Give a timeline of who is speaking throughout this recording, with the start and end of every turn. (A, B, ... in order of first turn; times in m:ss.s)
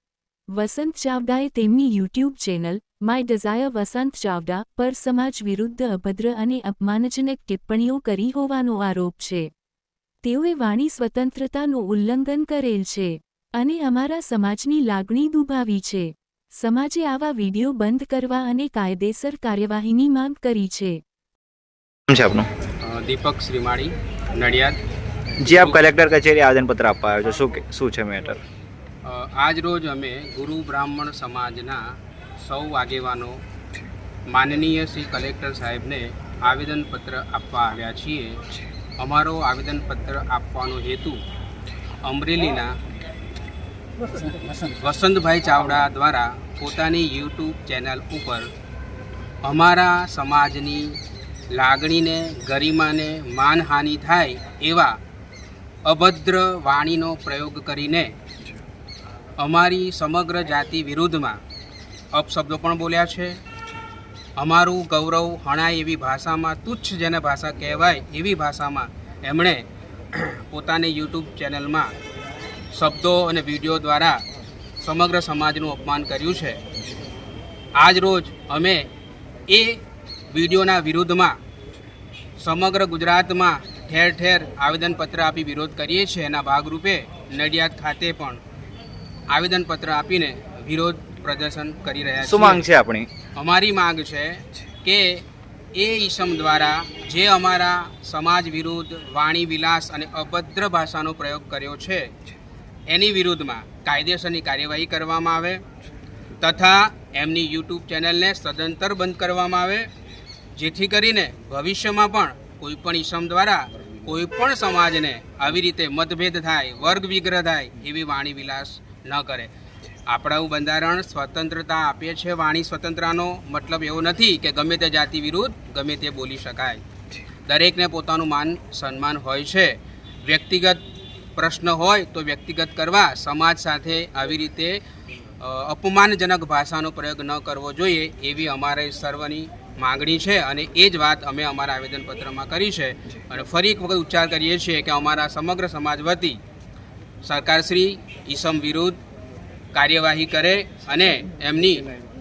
0:00.5-0:09.5 A
0:10.2-0:21.0 A
0:22.1-0:22.5 B
0:22.8-0:24.8 C
0:25.4-0:25.8 C
0:25.4-0:28.4 B
0:29.0-0:31.8 C
0:32.4-0:33.4 C
0:34.3-0:38.4 C
0:39.0-0:41.2 C
0:42.0-0:42.8 C
0:44.1-0:48.5 C
0:49.4-0:51.0 C
0:51.5-0:55.0 C
0:55.8-0:58.1 C
0:59.4-1:01.4 C
1:02.1-1:03.4 C
1:04.4-1:11.9 C
1:12.7-1:14.2 C
1:14.8-1:16.6 C
1:17.8-1:18.9 C
1:19.5-1:21.4 C
1:22.4-1:28.4 C
1:29.3-1:32.6 C
1:32.2-1:33.1 B
1:33.4-1:35.2 C
1:35.8-1:42.1 C
1:42.9-1:45.6 C
1:46.4-1:49.9 C
1:50.6-1:59.5 C
2:00.1-2:06.8 C
2:07.5-2:10.8 C
2:11.4-2:14.8 C
2:15.4-2:26.4 C
2:27.2-2:29.0 C
2:29.7-2:31.9 C